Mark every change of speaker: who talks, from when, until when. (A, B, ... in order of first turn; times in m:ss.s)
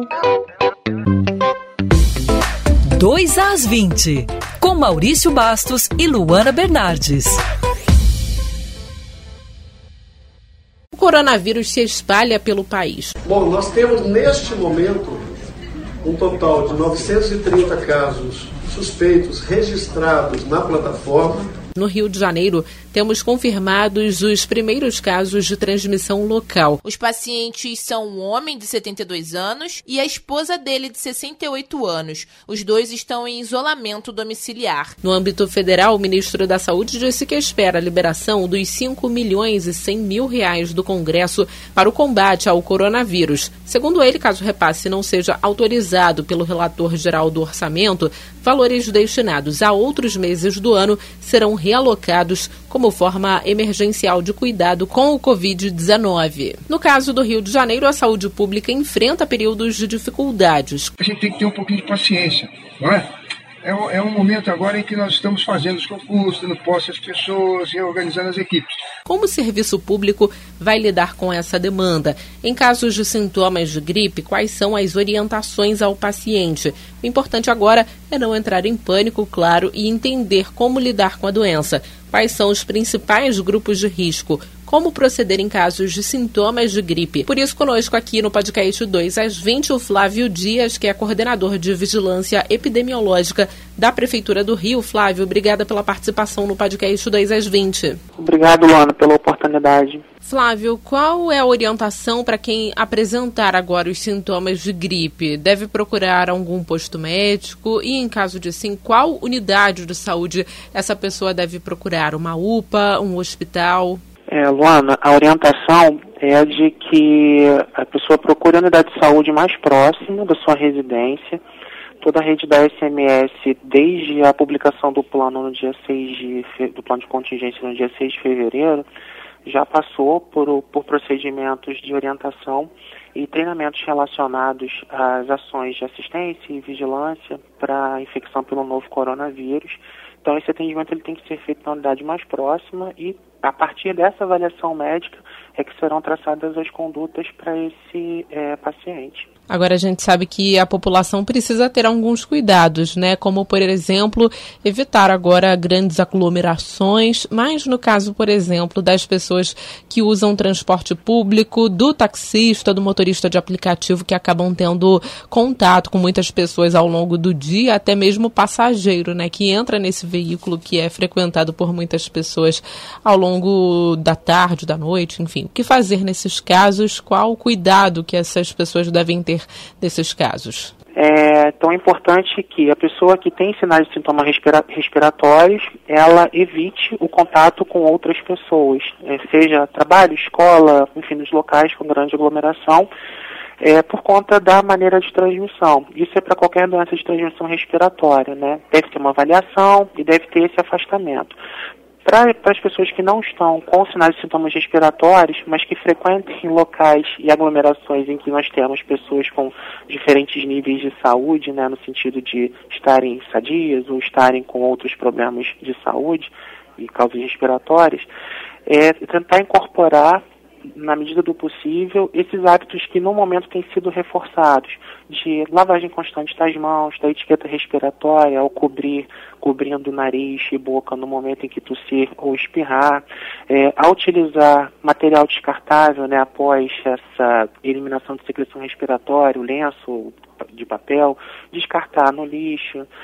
0:02.9-0:07.4 A
0:10.9-0:13.2 B
0:13.2-0:15.3 C
0:16.0-0:21.5 C
0:21.8-0:26.8 B
0:26.8-0:34.9 D
0:35.0-1:00.9 B
1:01.0-1:03.0 E
1:03.6-1:08.7 E
1:09.1-1:38.0 B
1:38.2-1:40.0 F
1:40.2-1:54.0 B
1:54.3-2:01.4 F
2:02.0-2:08.9 F
2:09.5-2:29.3 F
2:29.5-3:00.7 B
3:01.0-3:12.9 F
3:13.6-3:21.4 F
3:22.0-3:38.1 F
3:38.7-3:40.2 F
3:40.8-4:02.9 F